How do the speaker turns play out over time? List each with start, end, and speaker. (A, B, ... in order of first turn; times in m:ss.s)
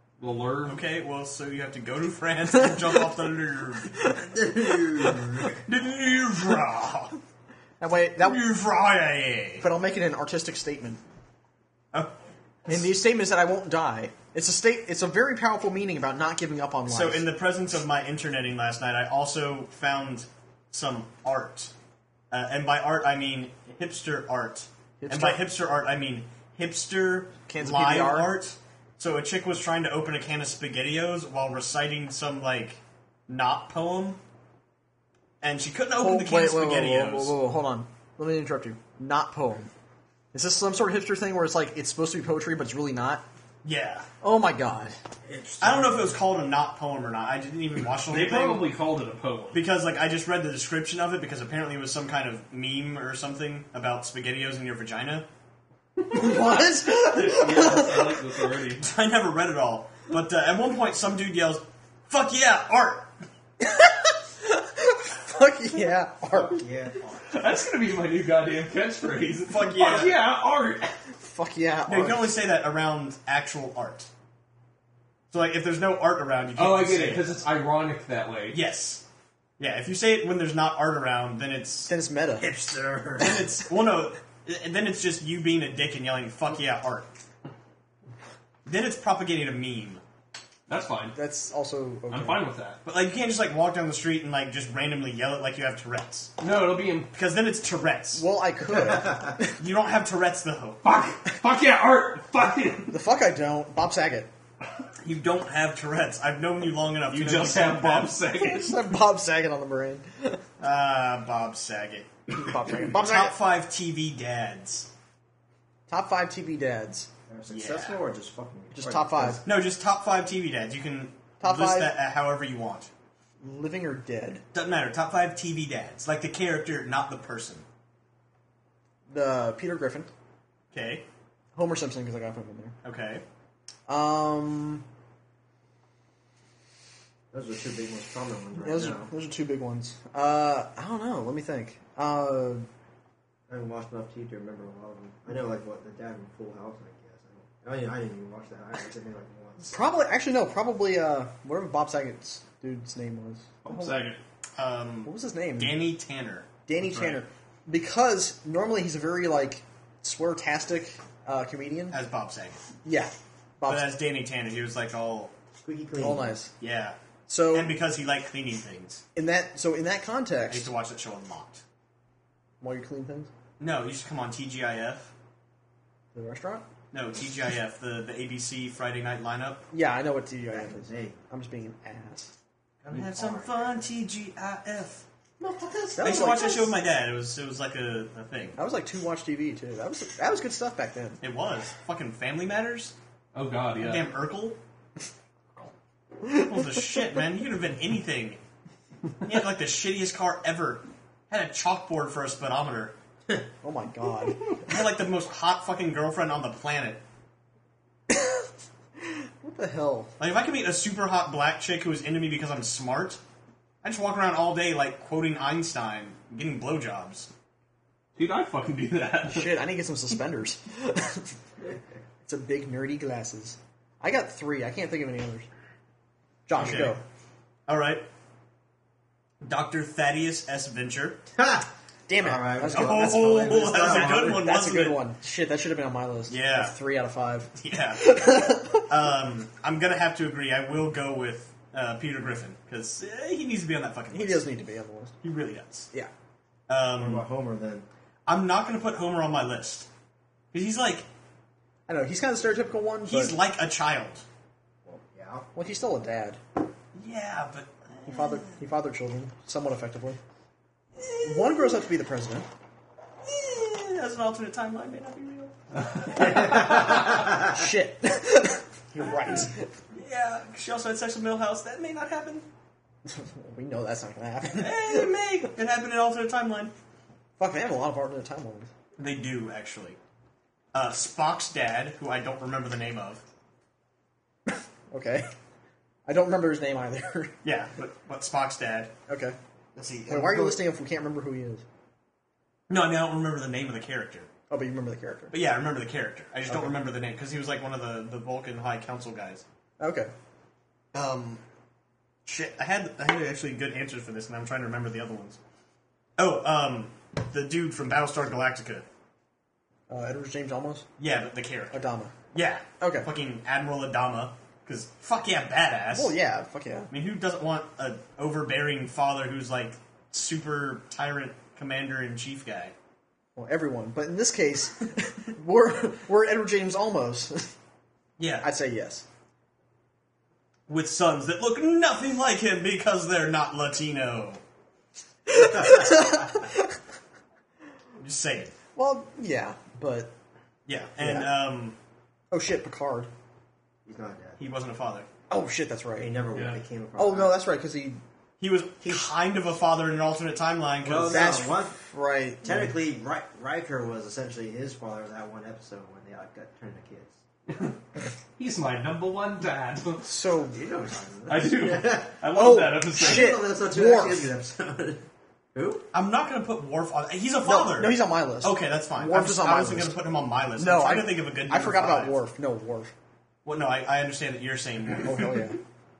0:00.2-0:00.8 A
0:00.7-0:04.0 B
0:02.6-0:03.0 C
0:04.0-0:04.2 C
0:04.1-0:05.6 D
0:05.6-0:07.2 B
0:07.8-0:08.4 C
0:08.2-0:09.7 B
0:09.6-0:11.0 C
0:12.7-0:17.3 C
0:16.9-0:21.7 B
0:22.3-0:34.2 B
0:25.0-0:25.4 C
0:27.5-0:28.4 C
0:35.4-0:37.4 B
0:36.0-0:39.7 C
0:40.3-0:43.2 C
0:43.6-0:44.1 B
0:44.2-0:45.0 C
0:45.3-0:46.2 D
0:45.6-0:48.7 B
0:48.1-0:49.6 A
0:49.5-0:55.3 B
0:56.1-0:58.3 C
0:56.1-0:58.9 A
0:58.8-1:03.1 B
1:03.6-1:06.6 C
1:06.3-1:07.3 D
1:07.3-1:11.0 A
1:09.5-1:10.2 B
1:11.2-1:12.3 C
1:11.9-1:14.1 B
1:15.3-1:17.4 B
1:16.6-1:18.6 A
1:18.5-1:19.0 B
1:19.6-1:21.9 B
1:21.9-1:22.5 C
1:22.4-1:23.4 D
1:23.2-1:27.1 B
1:28.7-1:30.0 B
1:30.7-1:31.2 A
1:31.1-1:32.4 C
1:32.1-1:32.8 A
1:32.8-1:36.3 B
1:36.4-1:37.1 A
1:37.1-1:38.2 B
1:38.1-1:39.6 C
1:38.8-1:39.4 D
1:39.6-1:40.8 B
1:40.8-1:42.9 A
1:42.9-1:44.3 C
1:45.0-1:48.2 B
1:47.1-1:48.8 A
1:48.3-1:50.4 C
1:50.6-1:52.1 B
1:52.4-1:53.4 C
1:52.7-1:54.9 B
1:55.9-1:57.1 C
1:57.3-1:59.5 D
1:57.5-1:58.0 B
1:58.7-1:59.4 C
1:59.4-2:02.9 B
2:01.4-2:01.9 C
2:03.4-2:04.4 C
2:04.5-2:07.6 B
2:09.1-2:10.1 C
2:10.7-2:11.0 B
2:11.6-2:12.8 C
2:12.8-2:13.2 B
2:13.9-2:14.8 C
2:17.3-2:19.1 D
2:18.6-2:22.7 C
2:23.5-2:29.8 D
2:29.7-2:34.0 C
2:33.6-2:34.2 A
2:34.6-2:37.2 B
2:35.1-2:35.8 C
2:36.7-2:42.0 C
2:41.9-2:42.6 B
2:42.8-2:43.9 C
2:43.6-2:45.3 B
2:45.6-2:46.4 D
2:46.0-2:46.5 C
2:46.6-2:47.0 B
2:47.3-2:47.8 C
2:47.5-2:49.0 B
2:49.2-2:50.7 C
2:50.5-2:51.6 B
2:52.6-2:53.3 C
2:53.6-2:55.1 B
2:56.1-2:56.6 C
2:56.9-2:59.6 B
2:59.7-3:02.3 C
3:00.5-3:01.2 D
3:02.8-3:05.0 B
3:02.9-3:03.8 D
3:05.4-3:06.5 D
3:05.9-3:06.7 C
3:06.0-3:08.6 B
3:08.6-3:11.2 C
3:11.2-3:13.0 B
3:13.3-3:14.1 A
3:13.8-3:14.6 B
3:16.3-3:18.4 B
3:16.3-3:16.8 C
3:19.2-3:22.9 B
3:23.6-3:24.6 C
3:24.6-3:27.0 B
3:28.1-3:28.5 C
3:29.0-3:30.1 C
3:30.2-3:33.2 B
3:33.8-3:37.3 B
3:38.1-3:39.6 A
3:39.3-3:41.3 C
3:42.2-3:45.5 C
3:46.5-3:47.0 C
3:46.5-3:47.0 B
3:47.7-3:48.1 B
3:49.4-3:51.2 B
3:51.4-3:51.7 D
3:52.1-3:58.9 C
3:52.2-3:54.4 D
3:52.7-3:55.0 B
3:56.3-3:56.8 B
3:57.6-4:04.5 B
4:04.1-4:05.1 C
4:05.2-4:05.9 B
4:06.7-4:07.2 B
4:07.0-4:07.9 D
4:08.3-4:09.9 B
4:10.5-4:11.1 B
4:11.9-4:13.4 C
4:13.1-4:14.2 B
4:14.8-4:15.5 D
4:15.6-4:16.4 C
4:17.0-4:18.6 B
4:18.1-4:20.2 C
4:21.0-4:21.7 B
4:21.2-4:22.5 C
4:23.2-4:25.6 B
4:26.2-4:29.7 C
4:26.4-4:26.6 D
4:29.9-4:32.5 B
4:33.0-4:35.1 C
4:34.5-4:36.7 B
4:37.4-4:38.7 C
4:39.0-4:40.0 B
4:40.7-4:43.2 B
4:44.5-4:45.3 C
4:46.1-4:47.4 C
4:47.4-4:48.9 B
4:49.1-4:49.4 C
4:49.8-4:50.6 B
4:50.1-4:51.6 C
4:52.7-4:54.3 B
4:54.5-4:55.4 C
4:55.3-4:59.4 B
4:56.5-4:56.8 C
4:59.8-5:00.1 C
5:00.9-5:01.4 B
5:02.3-5:05.4 B
5:06.2-5:08.9 B
5:09.9-5:10.9 C
5:11.0-5:16.2 B
5:11.7-5:12.1 C
5:12.8-5:13.1 C
5:15.9-5:16.9 C
5:16.9-5:22.7 B
5:23.4-5:27.5 C
5:28.2-5:28.5 B
5:28.4-5:29.0 C
5:30.7-5:34.4 B
5:35.3-5:36.8 C
5:35.3-5:36.3 D
5:38.0-5:38.5 B
5:38.8-5:40.1 C
5:40.7-5:41.8 B
5:41.0-5:41.3 C
5:42.3-5:43.1 C
5:43.9-5:44.4 D
5:44.4-5:45.1 B
5:45.3-5:46.1 C
5:46.0-5:47.4 D
5:46.3-5:46.6 A
5:47.0-5:48.0 C
5:48.4-5:51.4 B
5:48.8-5:49.1 D
5:50.8-5:51.8 D
5:51.1-5:52.7 C
5:52.4-5:57.2 D
5:57.5-5:57.8 A
5:58.4-6:00.1 A
6:00.0-6:00.6 C
6:00.5-6:02.2 D
6:01.3-6:03.4 A
6:02.3-6:04.3 C
6:02.9-6:05.9 D
6:05.9-6:12.1 B
6:07.4-6:10.0 C
6:10.6-6:12.9 C
6:13.4-6:15.3 B
6:15.0-6:15.6 C